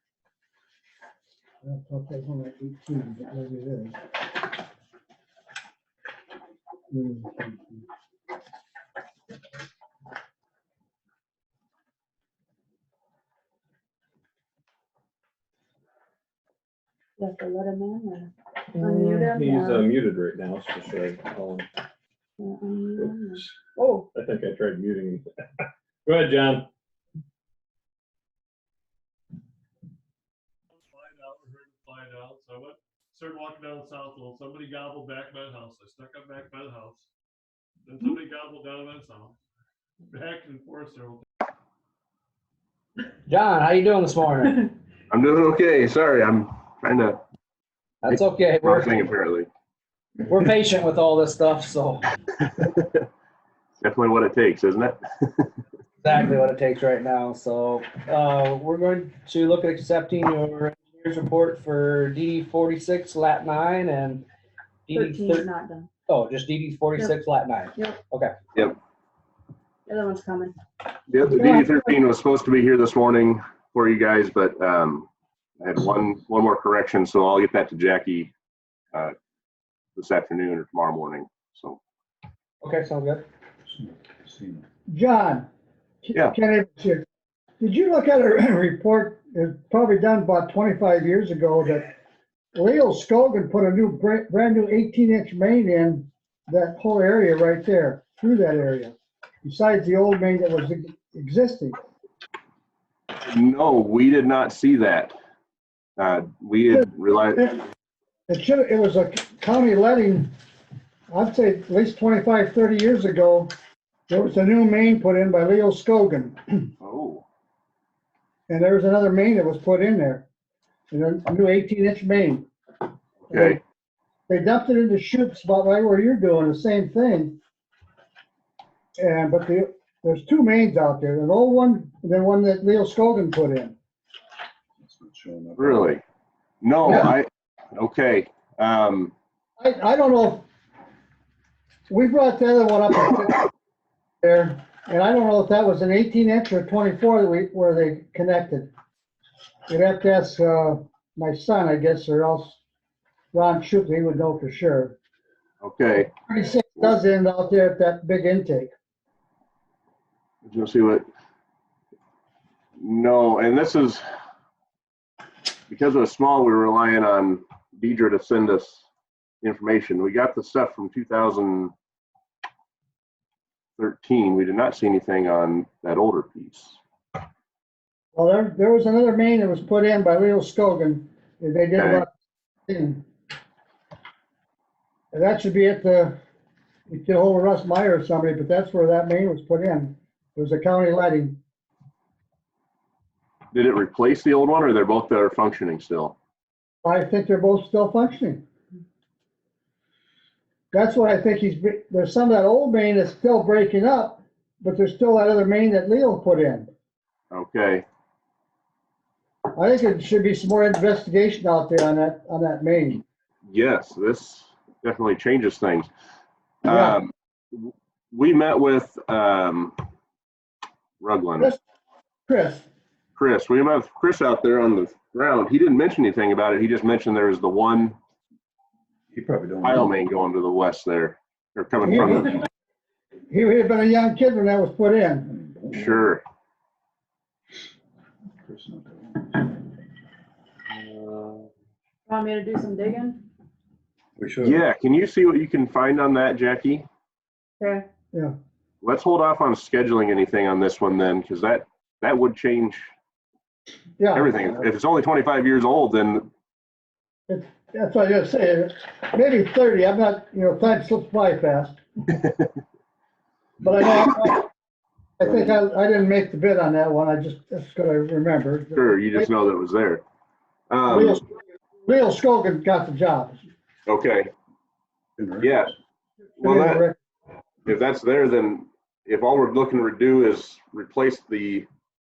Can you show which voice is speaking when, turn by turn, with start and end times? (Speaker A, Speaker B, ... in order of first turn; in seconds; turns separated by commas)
Speaker A: 1.6-4.0, Speaker A: 6.9-7.8, Speaker B: 17.2-19.9, Speaker C: 18.8-21.7, Speaker B: 22.4-24.1, Speaker C: 23.0-23.5, Speaker C: 24.1-26.7, Speaker D: 30.8-37.1, Speaker D: 37.9-39.4, Speaker D: 40.1-41.2, Speaker E: 43.3-44.7, Speaker F: 45.1-47.2, Speaker E: 48.0-49.1, Speaker F: 48.1-49.5, Speaker E: 50.3-52.0, Speaker F: 52.4-53.0, Speaker F: 53.8-55.5, Speaker E: 56.0-64.2, Speaker E: 64.9-65.5, Speaker B: 64.9-65.9, Speaker E: 66.1-68.3, Speaker B: 67.0-67.2, Speaker B: 67.8-68.0, Speaker B: 69.9-70.5, Speaker F: 71.1-75.1, Speaker A: 71.3-71.9, Speaker F: 75.6-78.3, Speaker F: 80.0-81.8, Speaker E: 82.6-83.2, Speaker G: 84.2-84.6, Speaker A: 84.9-85.5, Speaker A: 86.0-87.0, Speaker A: 87.6-91.9, Speaker A: 92.5-101.8, Speaker F: 103.3-105.1, Speaker F: 106.0-107.4, Speaker A: 108.3-110.3, Speaker A: 111.1-113.5, Speaker A: 114.1-116.7, Speaker F: 116.8-117.2, Speaker A: 118.5-120.2, Speaker A: 120.9-122.5, Speaker F: 123.2-123.6, Speaker A: 123.3-123.6, Speaker A: 124.3-127.4, Speaker A: 129.0-133.8, Speaker G: 134.8-135.9, Speaker F: 135.6-136.0, Speaker F: 136.6-139.1, Speaker A: 136.8-137.1, Speaker A: 139.6-140.5, Speaker A: 141.9-143.5, Speaker A: 144.2-148.7, Speaker A: 149.7-152.6, Speaker A: 153.3-154.9, Speaker F: 155.6-156.1, Speaker A: 156.0-158.7, Speaker F: 160.4-161.0, Speaker F: 162.8-164.0, Speaker F: 165.7-168.9, Speaker F: 169.4-171.7, Speaker F: 173.8-176.8, Speaker A: 178.1-182.1, Speaker F: 181.8-182.0, Speaker A: 182.7-183.0, Speaker A: 185.1-186.2, Speaker A: 186.9-191.4, Speaker F: 193.5-196.2, Speaker A: 196.8-198.4, Speaker A: 200.7-206.7, Speaker F: 207.3-207.8, Speaker A: 209.6-213.0, Speaker F: 213.5-215.9, Speaker F: 216.7-219.8, Speaker A: 216.7-217.0, Speaker F: 221.0-221.5, Speaker A: 222.3-222.7, Speaker F: 223.2-227.9, Speaker G: 229.1-229.9, Speaker F: 229.6-232.4, Speaker A: 231.8-232.4, Speaker A: 233.3-235.3, Speaker G: 235.3-236.1, Speaker F: 235.7-236.2, Speaker G: 238.5-239.5, Speaker B: 242.1-243.2, Speaker G: 244.2-244.6, Speaker F: 244.4-246.8, Speaker B: 247.6-247.9, Speaker F: 248.8-252.8, Speaker A: 254.0-254.3, Speaker F: 254.1-256.3, Speaker A: 257.3-261.8, Speaker A: 263.6-264.5, Speaker A: 265.2-269.3, Speaker F: 268.7-270.0, Speaker F: 270.7-271.2, Speaker A: 270.9-273.4, Speaker F: 273.9-274.3, Speaker G: 275.2-275.5, Speaker F: 275.4-275.7, Speaker F: 276.4-276.9, Speaker A: 276.4-277.0, Speaker F: 277.6-281.7